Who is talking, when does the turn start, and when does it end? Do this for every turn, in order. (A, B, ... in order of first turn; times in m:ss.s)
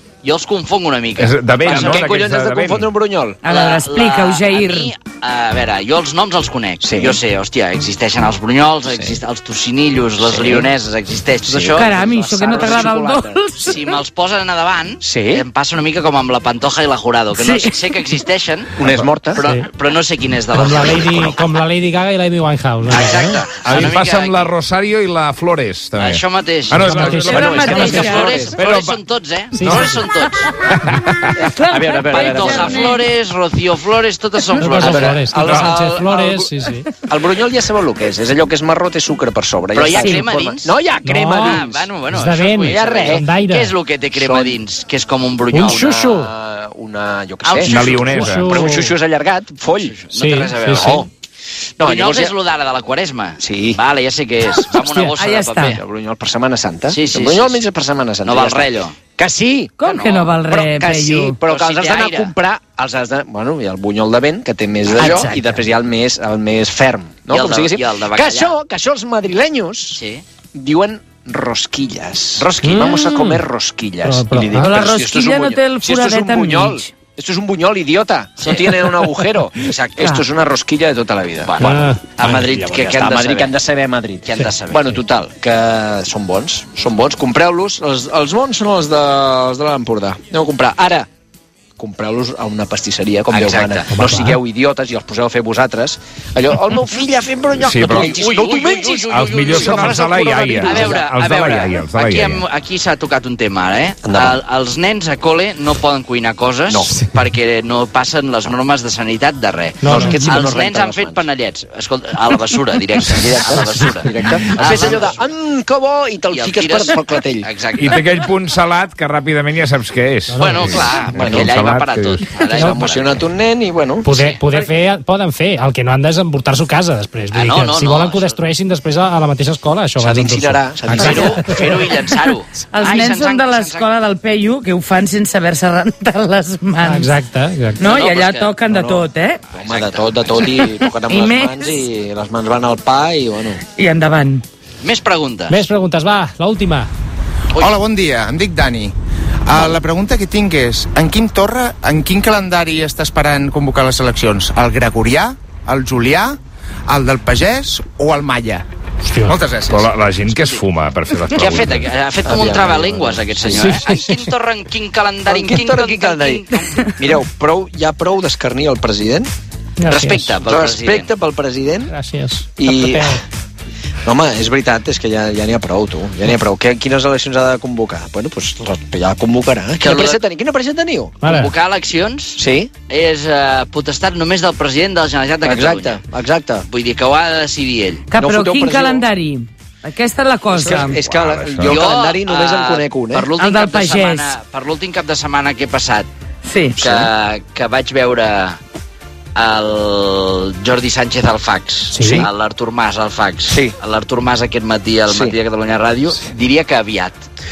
0:00.2-0:02.3 A
0:01.2-0:02.9 B
0:01.6-0:03.4 C
0:03.4-0:04.9 D
0:03.4-0:13.0 A
0:06.8-0:07.2 C
0:08.9-0:09.2 C
0:10.2-0:10.7 C
0:11.4-0:13.4 C
0:11.8-0:14.0 D
0:13.6-0:21.6 A
0:15.0-0:15.4 C
0:17.3-0:17.9 D
0:18.8-0:19.4 C
0:19.4-0:19.7 E
0:20.5-0:23.5 E
0:22.9-0:24.5 A
0:23.7-0:27.5 B
0:26.0-0:30.5 A
0:26.8-0:28.2 E
0:27.1-0:28.6 C
0:27.3-0:28.3 D
0:28.5-0:29.0 B
0:29.5-0:30.1 E
0:30.7-0:31.4 B
0:31.4-0:33.0 D
0:31.7-0:32.9 C
0:32.1-0:35.9 A
0:34.6-0:36.9 E
0:34.7-0:36.5 C
0:37.1-0:41.9 C
0:39.7-0:40.7 A
0:41.0-0:43.7 E
0:41.3-0:45.9 A
0:42.7-0:43.3 C
0:44.1-0:44.6 C
0:45.5-0:46.3 E
0:45.6-0:50.0 C
0:47.4-0:48.3 A
0:47.6-0:48.5 B
0:48.1-0:48.9 E
0:49.7-0:51.1 A
0:50.1-0:51.0 E
0:50.7-0:51.1 C
0:51.8-0:52.4 C
0:51.8-0:55.8 A
0:53.4-0:53.8 C
0:54.8-0:55.8 D
0:55.6-0:59.8 C
0:56.9-0:57.6 A
0:58.2-0:59.0 A
0:59.8-1:01.4 D
0:59.8-1:00.3 A
1:00.5-1:10.0 C
1:01.5-1:02.3 A
1:05.0-1:05.4 D
1:07.3-1:08.6 A
1:09.9-1:10.2 A
1:10.5-1:31.1 C
1:12.4-1:13.0 A
1:12.6-1:13.4 E
1:14.0-1:14.8 E
1:14.5-1:16.9 D
1:18.4-1:19.0 A
1:19.6-1:20.2 A
1:21.4-1:23.6 A
1:21.6-1:22.0 E
1:24.2-1:25.0 A
1:31.8-1:41.1 C
1:33.3-1:33.9 A
1:33.9-1:34.4 E
1:37.6-1:38.3 B
1:37.8-1:55.2 A
1:39.1-1:42.4 B
1:44.0-1:44.4 C
1:49.8-1:50.4 E
1:49.8-1:51.3 C
1:53.1-1:57.5 C
1:56.3-1:58.0 A
1:57.8-2:02.3 B
2:00.3-2:01.0 E
2:00.4-2:03.3 A
2:01.1-2:01.6 C
2:02.3-2:04.1 C
2:02.5-2:02.9 E
2:04.0-2:11.8 E
2:04.1-2:04.4 A
2:07.3-2:08.4 A
2:10.0-2:11.5 C
2:10.9-2:13.9 A
2:12.2-2:17.1 D
2:16.8-2:17.8 E
2:17.8-2:19.4 D
2:17.8-2:18.6 A
2:18.7-2:23.6 C
2:19.6-2:20.5 A
2:20.5-2:21.8 D
2:23.8-2:24.4 D
2:24.8-2:25.6 A
2:25.5-2:26.9 E
2:27.5-2:27.8 A
2:27.6-2:28.9 F
2:29.5-2:38.7 F
2:29.5-2:29.8 A
2:39.0-2:39.4 E
2:39.2-2:39.9 F
2:39.7-2:41.9 B
2:40.3-2:40.6 A
2:41.3-2:47.0 A
2:42.2-2:43.8 C
2:43.5-2:44.2 E
2:45.3-2:49.3 C
2:49.8-2:50.4 E
2:49.9-2:51.1 A
2:50.5-2:51.9 C
2:51.9-2:53.2 E
2:52.6-2:53.2 C
2:54.0-3:01.2 C
2:59.8-3:00.2 A
3:01.2-3:01.5 E
3:01.2-3:06.0 A
3:02.4-3:02.7 C
3:05.4-3:06.7 C
3:06.7-3:08.1 A
3:08.1-3:11.0 D
3:08.2-3:09.1 C
3:10.5-3:13.3 C
3:11.1-3:11.8 B
3:11.6-3:16.1 A
3:13.3-3:14.4 D
3:16.4-3:16.8 D
3:16.8-3:17.1 C
3:16.8-3:18.6 A
3:19.4-3:27.2 A
3:21.9-3:22.3 E
3:22.0-3:22.3 C
3:23.4-3:23.7 C
3:25.1-3:25.4 C